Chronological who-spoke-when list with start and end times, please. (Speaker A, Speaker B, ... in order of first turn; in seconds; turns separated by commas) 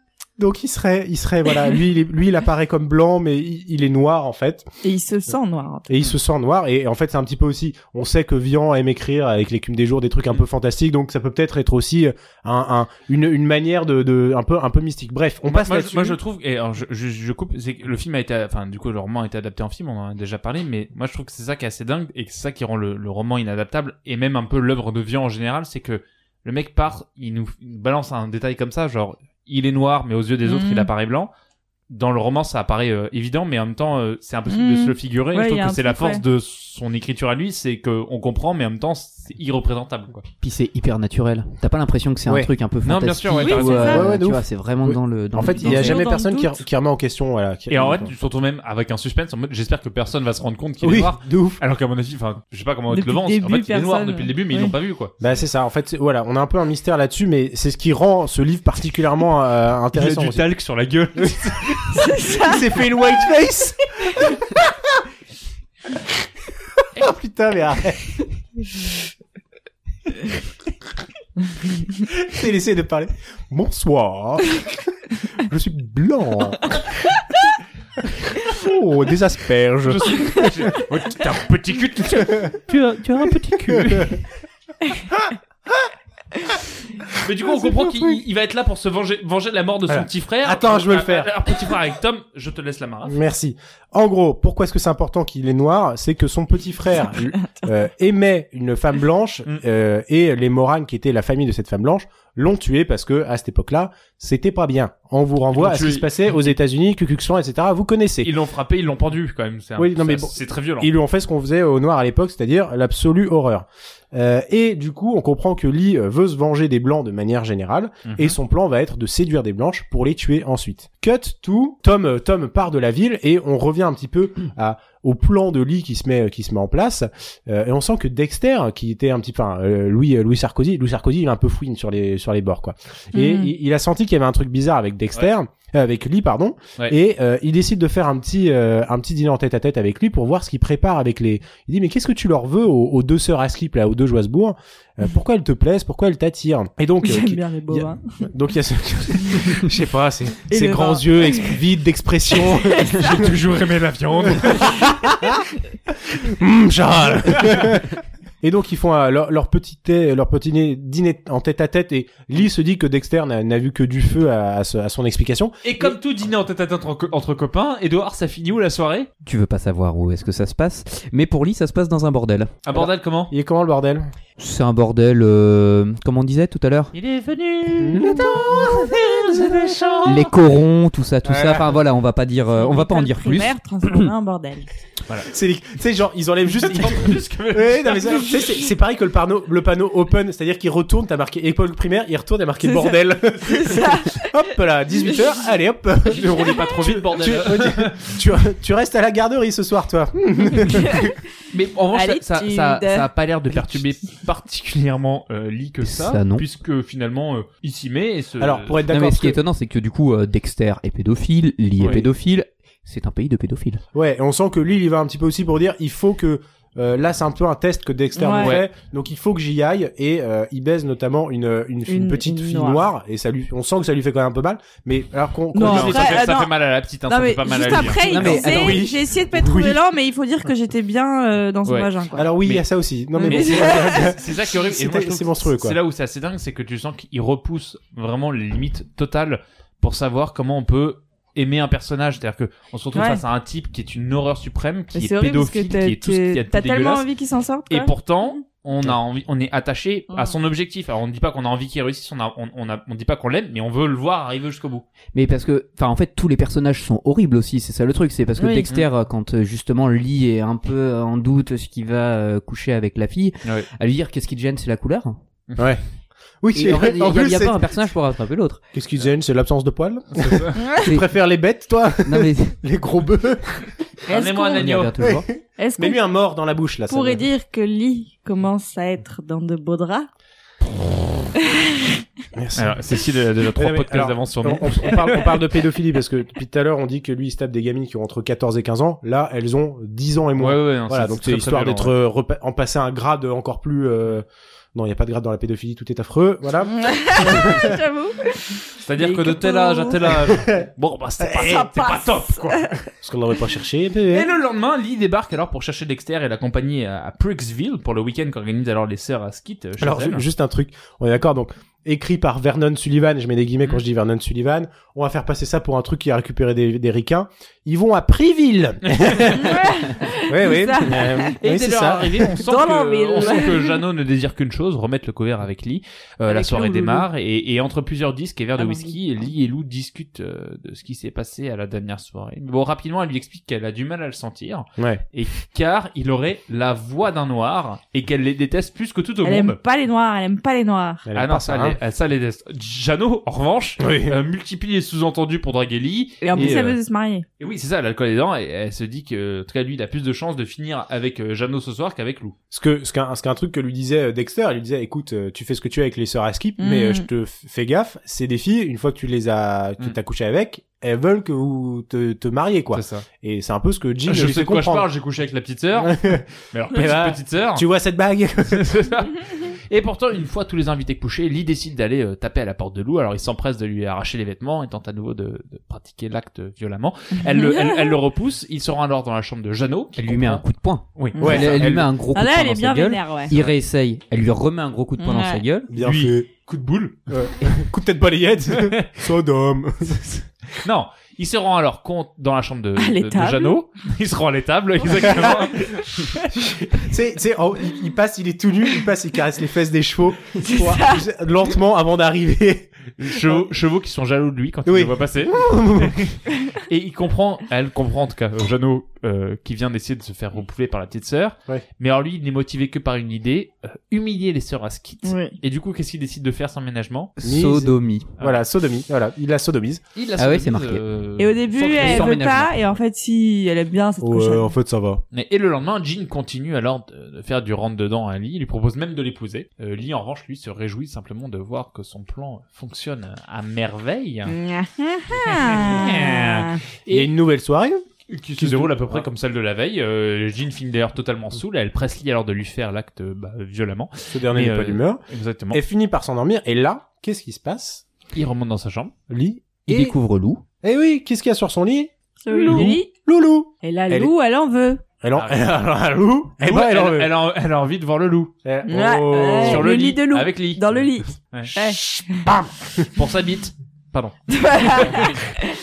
Speaker A: 0.4-4.7, Speaker B: 4.8-5.9, Speaker A: 5.9-16.2, Speaker C: 15.5-31.3, Speaker B: 30.4-30.9, Speaker C: 31.9-40.2, Speaker B: 34.5-36.2, Speaker D: 40.4-46.0, Speaker C: 42.8-44.1, Speaker B: 43.4-44.1, Speaker A: 43.9-48.1, Speaker B: 45.5-46.6, Speaker C: 47.7-55.2, Speaker A: 50.8-51.6, Speaker B: 52.9-54.7, Speaker A: 55.2-60.5, Speaker C: 60.0-62.0, Speaker A: 61.2-61.8, Speaker B: 61.9-62.6, Speaker A: 62.4-65.0, Speaker A: 66.8-68.2, Speaker A: 72.1-76.9, Speaker A: 78.4-80.8, Speaker C: 79.9-84.2, Speaker A: 82.2-82.6, Speaker A: 83.2-84.2, Speaker C: 87.2-93.2, Speaker A: 87.5-88.2, Speaker A: 89.9-91.5, Speaker A: 93.1-108.3, Speaker B: 97.1-97.7, Speaker C: 105.5-106.5, Speaker C: 108.2-110.9, Speaker A: 109.8-153.4, Speaker C: 118.0-118.4, Speaker B: 133.2-133.5, Speaker B: 147.0-148.3, Speaker B: 150.5-151.6, Speaker B: 152.5-153.0, Speaker C: 153.0-154.9, Speaker A: 154.3-155.4, Speaker B: 154.6-154.9, Speaker A: 156.1-166.0, Speaker C: 157.3-157.7, Speaker C: 165.6-169.1, Speaker D: 169.2-172.5, Speaker C: 172.6-173.3, Speaker A: 172.7-174.1, Speaker D: 174.4-176.9, Speaker C: 176.9-180.4, Speaker A: 177.8-179.5, Speaker D: 180.1-183.5, Speaker A: 181.3-181.7, Speaker B: 182.6-184.7, Speaker A: 185.2-201.1, Speaker C: 186.5-188.4, Speaker B: 192.6-194.3, Speaker C: 196.1-198.1, Speaker B: 196.4-196.6, Speaker B: 200.7-201.1, Speaker C: 201.5-208.8, Speaker B: 201.9-203.1, Speaker D: 205.8-206.4, Speaker A: 208.4-209.4, Speaker D: 208.9-213.8, Speaker C: 211.8-212.1, Speaker A: 211.8-212.1, Speaker A: 213.9-226.3, Speaker B: 218.2-218.6, Speaker C: 218.4-218.7, Speaker B: 221.9-222.8, Speaker B: 225.5-226.5, Speaker C: 225.6-228.0, Speaker B: 227.1-232.3, Speaker D: 228.0-228.9, Speaker A: 228.0-229.8, Speaker A: 232.2-235.8, Speaker B: 233.2-234.1, Speaker C: 233.2-247.1, Speaker B: 242.9-243.2, Speaker B: 244.9-248.3, Speaker C: 247.7-254.8, Speaker D: 255.1-265.2, Speaker B: 258.4-258.7, Speaker A: 265.6-265.8, Speaker A: 266.4-267.7, Speaker D: 266.6-268.6, Speaker A: 268.7-273.8, Speaker C: 270.1-270.6, Speaker B: 270.6-270.8, Speaker D: 272.1-272.6, Speaker B: 274.1-274.7, Speaker C: 274.1-274.9, Speaker D: 274.6-275.3, Speaker A: 275.0-277.2, Speaker B: 275.6-276.0, Speaker B: 276.9-280.1, Speaker A: 282.3-282.8, Speaker C: 282.6-285.5, Speaker A: 283.6-297.8, Speaker C: 290.4-292.0, Speaker B: 296.7-300.0, Speaker C: 298.8-302.8, Speaker A: 300.3-300.7, Speaker B: 301.3-302.7, Speaker A: 303.0-304.3, Speaker C: 304.1-310.3, Speaker A: 309.8-319.7, Speaker B: 319.4-321.4, Speaker A: 320.3-322.4, Speaker C: 321.4-339.6, Speaker B: 322.3-323.8, Speaker B: 326.3-327.1, Speaker B: 328.6-329.0, Speaker A: 334.8-335.0, Speaker B: 339.2-341.1, Speaker A: 341.1-341.8, Speaker C: 341.2-346.8, Speaker A: 343.8-344.2, Speaker B: 346.2-347.2, Speaker A: 346.3-346.7, Speaker C: 347.4-352.4, Speaker A: 352.5-364.9, Speaker B: 356.6-357.1, Speaker C: 362.7-363.1, Speaker C: 364.1-367.7, Speaker A: 365.8-368.8, Speaker C: 368.5-380.4, Speaker B: 377.3-378.0, Speaker D: 380.0-385.7, Speaker C: 381.0-381.7, Speaker B: 381.1-381.4, Speaker A: 381.2-381.9, Speaker B: 382.1-383.3, Speaker C: 383.3-383.6, Speaker B: 385.0-385.4, Speaker A: 385.7-386.3, Speaker C: 385.8-387.1, Speaker A: 387.1-390.0, Speaker C: 388.5-388.9, Speaker C: 389.9-396.0, Speaker B: 392.8-393.6, Speaker B: 394.8-396.2, Speaker A: 394.9-395.4, Speaker A: 396.3-403.5, Speaker B: 400.4-401.1, Speaker C: 403.0-417.1, Speaker A: 404.7-406.0, Speaker B: 415.0-415.4, Speaker D: 417.2-418.1, Speaker A: 417.2-419.8, Speaker C: 419.9-422.2, Speaker D: 420.2-420.8, Speaker B: 421.2-424.5, Speaker D: 421.6-422.5, Speaker A: 424.0-425.0, Speaker C: 425.1-434.4, Speaker B: 434.3-436.6, Speaker C: 435.1-437.1, Speaker A: 436.9-437.8, Speaker C: 438.1-445.6, Speaker A: 438.4-439.1, Speaker A: 444.1-447.8, Speaker C: 448.1-448.9, Speaker A: 449.1-450.0, Speaker D: 449.7-450.4, Speaker A: 450.6-451.9, Speaker B: 452.2-452.9, Speaker C: 452.4-452.7, Speaker A: 452.5-454.1, Speaker B: 453.6-454.8, Speaker A: 455.0-457.1, Speaker C: 455.2-455.4, Speaker C: 456.4-458.3, Speaker A: 458.4-459.7, Speaker B: 458.7-462.2, Speaker C: 459.4-460.6, Speaker A: 461.5-462.9, Speaker C: 462.9-465.2, Speaker B: 464.3-465.3